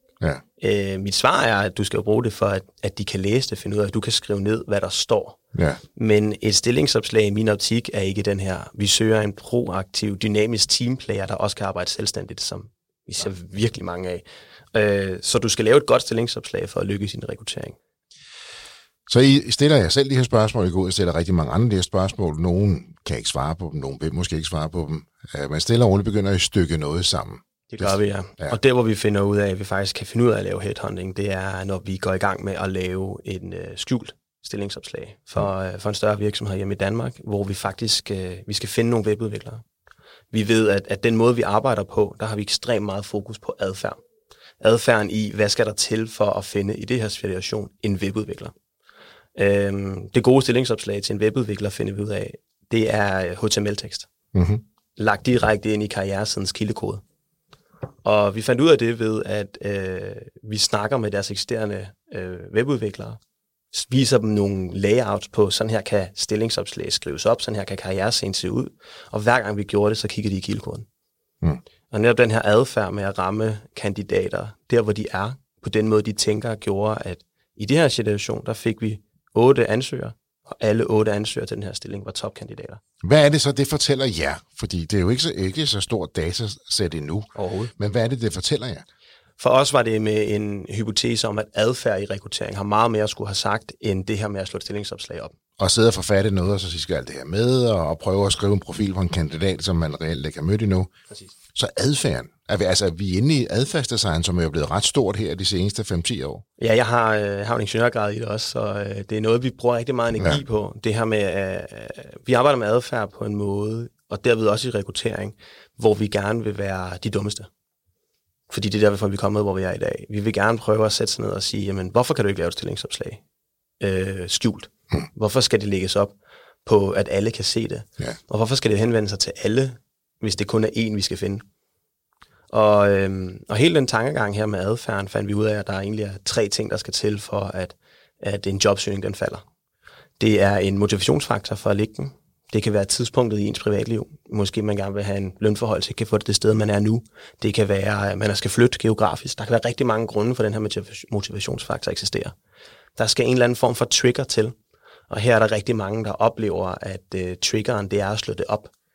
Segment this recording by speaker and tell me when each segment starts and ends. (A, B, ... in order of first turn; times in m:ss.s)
0:00.6-0:05.4 A
0:05.5-0:05.8 B
0:05.9-0:17.8 A
0:19.1-0:28.6 B
0:27.7-0:39.6 A
0:40.3-0:44.0 A
0:44.6-0:48.5 A
0:49.4-0:54.1 A
0:54.3-0:54.6 B
0:55.0-0:57.0 A
0:58.0-1:03.2 A
1:03.7-1:10.9 A
1:11.9-1:22.8 A
1:23.0-1:28.8 B
1:27.4-1:27.7 A
1:29.4-1:35.3 A
1:35.6-1:40.9 B
1:41.5-1:46.4 B
1:46.6-1:57.5 A
1:58.5-2:03.2 A
2:03.8-2:11.4 A
2:12.5-2:19.4 A
2:20.2-2:32.3 A
2:33.0-2:34.5 A
2:35.1-2:38.7 A